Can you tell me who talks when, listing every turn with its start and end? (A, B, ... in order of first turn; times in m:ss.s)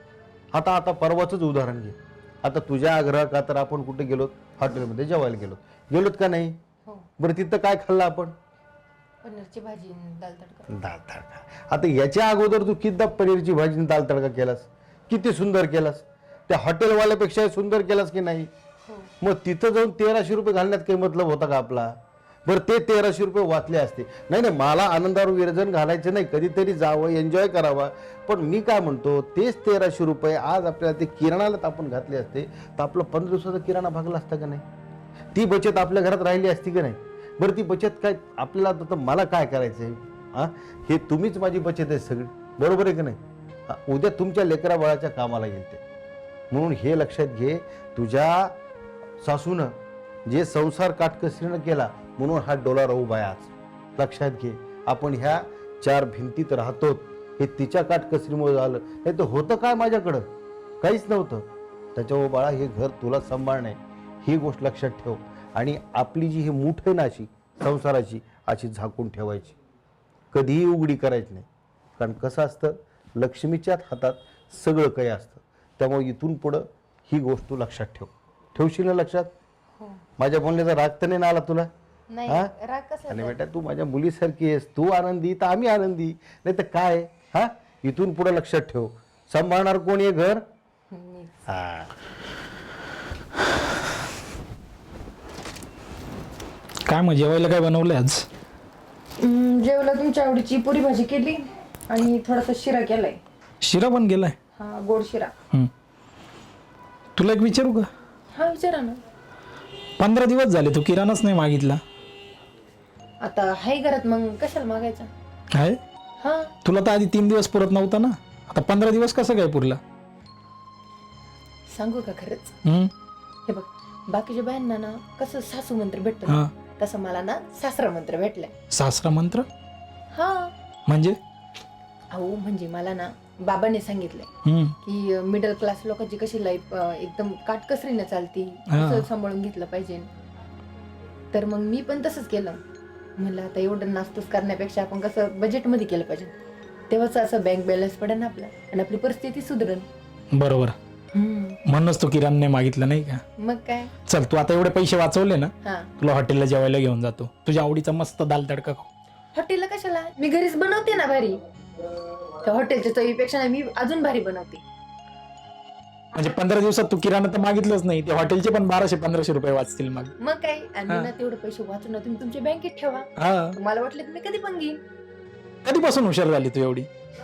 0:00.5-0:06.6 A
0:07.2-0:08.3 A
0:09.2-0:10.7 B
0:10.7-0:18.5 A
0:19.2-0:34.6 A
0:35.3-0:45.8 A
0:46.5-0:48.6 A
0:49.2-0:49.8 A
0:50.3-1:00.3 A
1:00.8-1:09.6 A
1:10.3-1:19.3 A
1:20.2-1:21.7 A
1:22.1-1:23.4 B
1:23.1-1:30.4 A
1:30.9-1:31.4 B
1:31.5-1:31.9 A
1:36.9-1:38.3 C
1:39.2-1:43.2 B
1:43.6-1:44.4 C
1:44.6-1:45.3 B
1:47.2-1:47.9 C
1:48.3-1:49.0 B
1:50.0-1:51.8 C
1:53.2-1:55.1 B
1:55.5-1:55.8 C
1:56.2-1:56.5 B
1:56.6-1:59.8 C
2:01.7-2:02.6 B
2:02.6-2:02.9 C
2:03.5-2:08.5 B
2:08.7-2:09.5 C
2:10.1-2:10.5 B
2:10.9-2:11.2 C
2:12.1-2:14.3 B
2:14.4-2:14.8 C
2:14.8-2:20.1 B
2:18.7-2:19.1 C
2:21.3-2:22.6 B
2:23.2-2:26.4 B
2:26.9-2:29.9 B
2:30.3-2:30.8 C
2:31.1-2:31.6 B
2:31.6-2:33.2 C
2:33.4-2:33.9 B
2:34.1-2:38.9 C
2:35.6-2:35.9 B
2:39.4-2:41.4 B
2:42.4-2:44.6 B
2:46.2-2:50.1 C
2:50.2-2:54.8 B
2:53.2-2:53.6 C
2:55.6-2:56.9 C